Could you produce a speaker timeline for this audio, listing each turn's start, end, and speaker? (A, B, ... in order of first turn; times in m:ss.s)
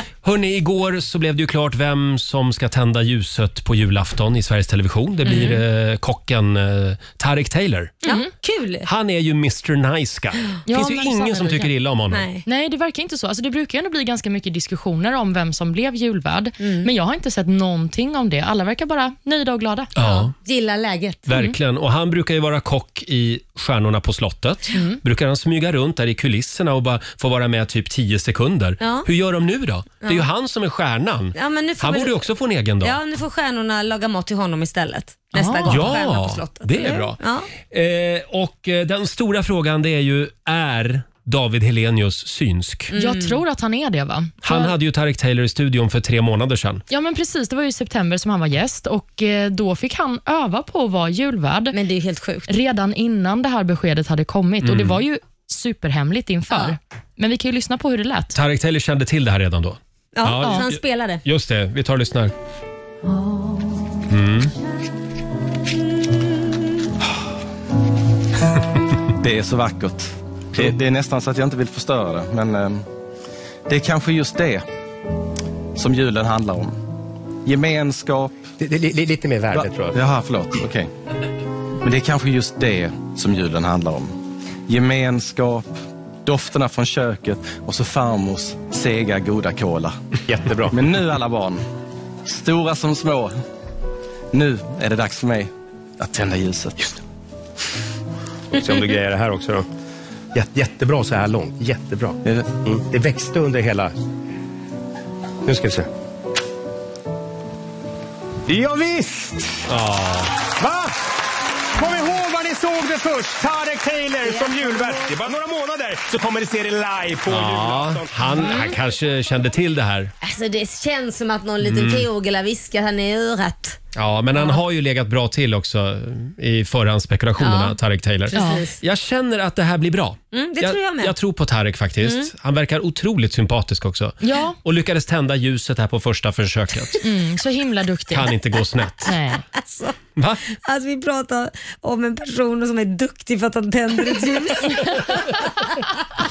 0:00.2-0:08.0 A
0:05.2-0:05.6 B
0:05.3-0:05.6 C
0:08.0-0:08.9 B
0:08.8-0:12.3 A
0:10.7-0:11.7 C
0:12.1-0:12.4 B
0:12.4-0:19.9 C
0:16.6-0:16.9 B
0:20.0-0:20.3 A
0:20.0-0:21.3 B
0:21.3-0:33.0 A
0:28.8-0:29.1 B
0:31.4-0:32.3 B
0:32.8-0:37.5 B
0:35.3-0:35.9 C
0:35.7-0:42.9 A
0:42.9-0:43.4 B
0:43.0-0:44.7 C
0:44.4-0:46.8 A
0:46.9-0:51.8 C
0:51.7-0:52.5 B
0:52.5-0:58.4 C
0:54.6-0:55.0 A
0:56.5-0:56.8 B
0:58.4-1:02.3 A
1:00.2-1:01.2 B
1:04.1-1:04.5 A
1:09.2-1:12.8 D
1:13.7-1:14.6 D
1:15.8-1:16.8 D
1:17.4-1:18.4 D
1:18.6-1:20.0 E
1:19.5-1:20.9 D
1:21.8-1:24.1 D
1:24.7-1:25.7 D
1:26.2-1:30.0 D
1:30.3-1:30.9 E
1:30.7-1:31.6 D
1:32.3-1:33.4 D
1:34.3-1:36.9 D
1:38.5-1:39.7 E
1:40.3-1:43.9 E
1:42.2-1:42.5 D
1:45.4-1:45.9 E
1:48.5-1:49.7 E
1:49.7-1:50.4 A
1:50.5-1:51.1 E
1:51.8-1:58.2 E
1:54.2-1:55.1 B
1:57.3-2:00.1 A
1:58.4-1:58.7 B
2:00.2-2:03.8 B
2:01.6-2:02.1 A
2:04.0-2:17.0 A
2:07.4-2:07.8 B
2:08.3-2:08.8 B
2:08.4-2:08.6 C
2:10.3-2:11.2 B
2:12.0-2:12.3 B
2:14.2-2:14.6 C
2:17.0-2:18.3 C
2:18.1-2:19.2 A
2:19.1-2:19.4 C
2:19.5-2:20.0 B
2:20.2-2:20.4 A
2:20.5-2:25.9 B